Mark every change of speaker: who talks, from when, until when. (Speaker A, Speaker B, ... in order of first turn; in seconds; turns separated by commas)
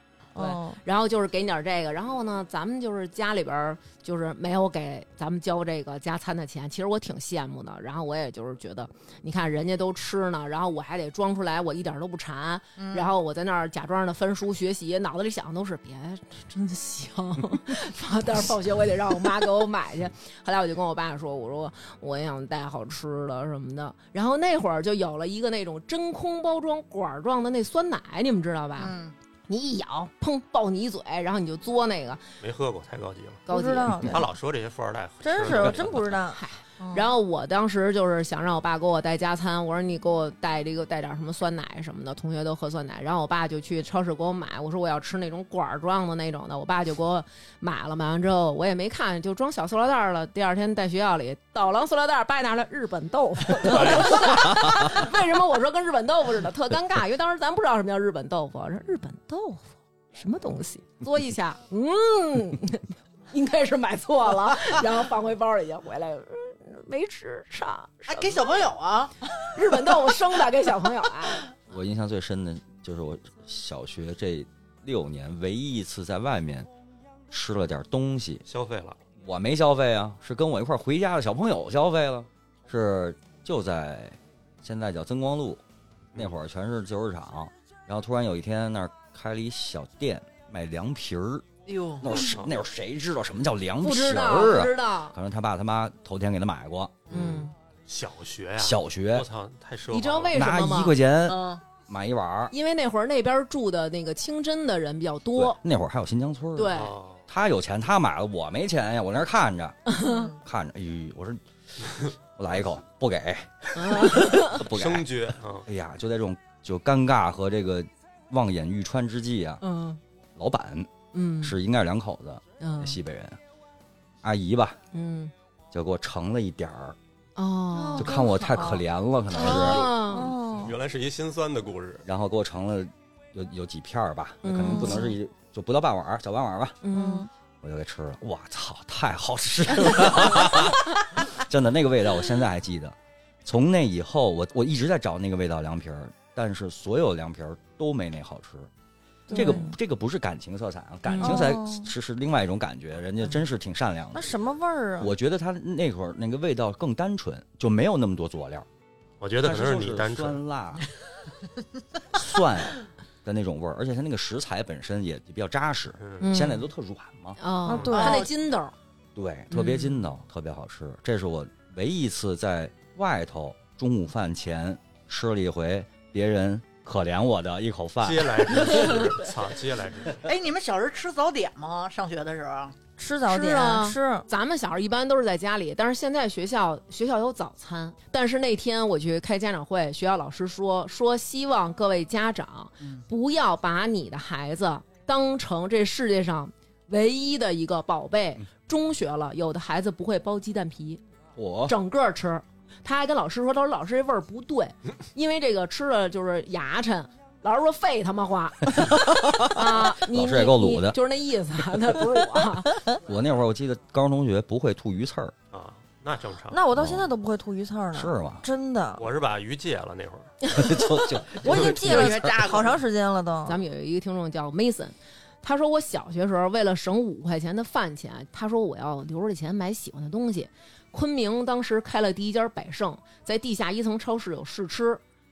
Speaker A: 0.3-0.8, Speaker B: 0.3-28.9, Speaker C: 12.8-13.1, Speaker C: 28.8-29.1, Speaker B: 29.5-32.2, Speaker D: 32.4-33.4, Speaker B: 33.5-34.0, Speaker A: 33.5-34.3, Speaker D: 34.0-36.2, Speaker A: 35.2-37.1, Speaker B: 35.5-68.6, Speaker D: 53.6-54.6, Speaker C: 68.1-69.2, Speaker B: 69.5-71.4, Speaker E: 71.7-76.7, Speaker E: 77.3-78.4, Speaker D: 78.5-79.0, Speaker E: 79.2-85.6, Speaker E: 86.1-91.5, Speaker C: 91.7-92.3, Speaker E: 92.0-97.0, Speaker D: 92.2-92.5, Speaker B: 93.8-95.1, Speaker C: 97.1-97.5, Speaker B: 97.1-97.5, Speaker D: 97.9-100.4, Speaker E: 98.6-99.3, Speaker B: 99.9-101.0, Speaker E: 100.3-102.5, Speaker C: 101.2-101.6, Speaker B: 102.5-105.6, Speaker E: 105.3-109.9, Speaker B: 106.5-106.9, Speaker D: 106.7-107.2, Speaker B: 109.9-110.3, Speaker C: 110.0-110.4, Speaker E: 110.4-119.6, Speaker B: 113.7-114.6, Speaker D: 114.6-115.7, Speaker B: 119.6-120.0, Speaker E: 120.3-120.9, Speaker B: 121.1-121.5, Speaker E: 121.4-123.4, Speaker B: 122.6-123.0, Speaker E: 124.2-124.8, Speaker B: 124.9-125.3, Speaker E: 125.7-127.0, Speaker B: 127.3-128.8, Speaker A: 127.7-128.7, Speaker E: 128.0-129.8, Speaker B: 129.3-130.3, Speaker A: 129.4-130.7, Speaker D: 129.5-129.8, Speaker D: 130.5-132.0, Speaker E: 132.0-136.8, Speaker B: 134.4-135.1, Speaker A: 134.7-135.1, Speaker B: 136.8-137.2, Speaker A: 136.9-137.3, Speaker E: 137.6-148.7, Speaker A: 149.3-149.7, Speaker B: 149.3-149.7, Speaker E: 149.3-154.3, Speaker B: 151.1-151.5, Speaker A: 151.2-151.9, Speaker A: 154.1-155.1, Speaker E: 155.0-158.7, Speaker D: 159.2-160.4, Speaker E: 159.4-160.9, Speaker E: 162.1-167.4, Speaker D: 166.0-166.3, Speaker B: 166.2-166.7, Speaker B: 167.4-168.7, Speaker A: 167.7-168.3, Speaker D: 167.7-168.2, Speaker C: 167.9-168.3, Speaker E: 169.1-179.1, Speaker B: 169.5-170.0, Speaker D: 178.0-180.2, Speaker C: 180.2-182.8, Speaker A: 183.0-184.2, Speaker B: 183.3-201.0, Speaker E: 201.3-201.8, Speaker B: 201.7-212.8, Speaker E: 208.8-209.3, Speaker E: 209.8-211.0, Speaker E: 213.0-215.3, Speaker D: 215.5-216.6, Speaker A: 216.5-219.0, Speaker E: 216.8-217.1, Speaker E: 217.9-218.4, Speaker D: 218.9-220.3, Speaker E: 220.5-222.5, Speaker A: 221.4-223.6, Speaker C: 221.4-222.8, Speaker B: 223.4-235.0